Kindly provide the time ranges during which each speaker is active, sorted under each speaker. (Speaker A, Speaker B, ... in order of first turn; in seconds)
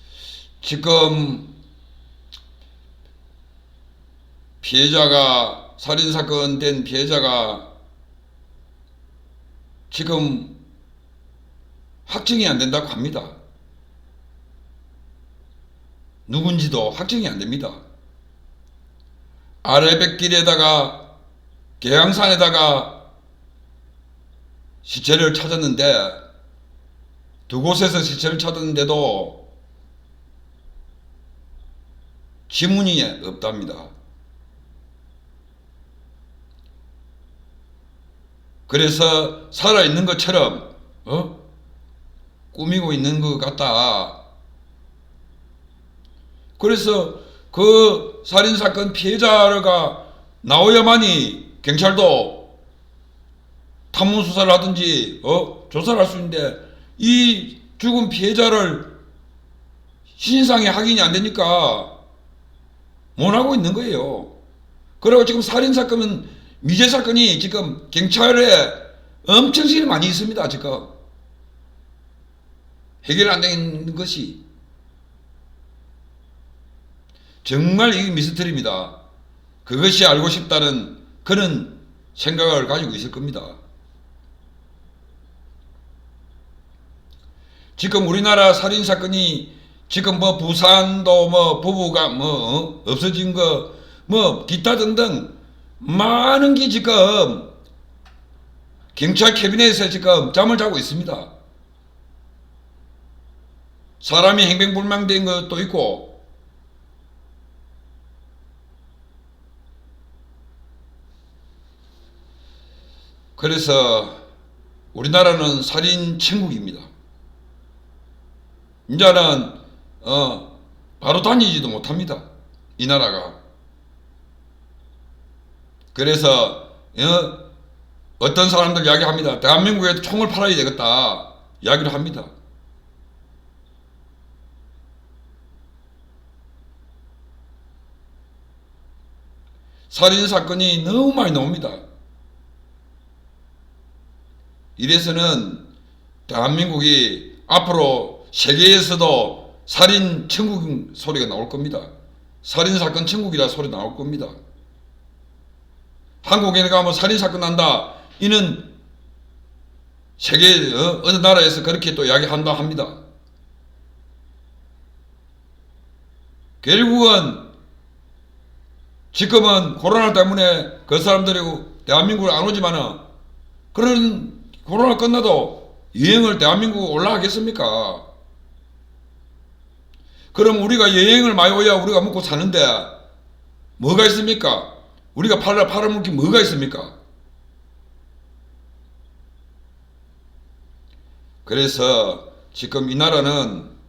Speaker A: 0.6-1.5, 4.6-7.7, 9.9-10.5, 12.1-13.3, 16.3-17.8, 19.6-21.0, 21.8-22.9, 24.8-26.2, 27.5-29.4, 32.5-33.9, 38.7-41.3, 42.5-44.2, 46.6-52.5, 53.9-58.9, 60.2-61.9, 63.2-64.3, 65.0-70.9, 73.0-74.4, 77.4-79.0, 79.7-83.6, 87.8-97.5, 99.0-101.3, 104.0-106.2, 113.4-114.2, 114.9-116.9, 118.9-120.5, 121.0-122.2, 122.8-123.4, 125.9-127.4, 128.2-132.3, 139.9-141.8, 144.8-145.6, 146.3-151.9, 152.4-154.4, 156.2-158.7, 160.2-163.0, 166.6-167.5, 169.1-173.0, 173.7-178.1, 180.3-182.9, 183.8-186.9, 191.4-193.7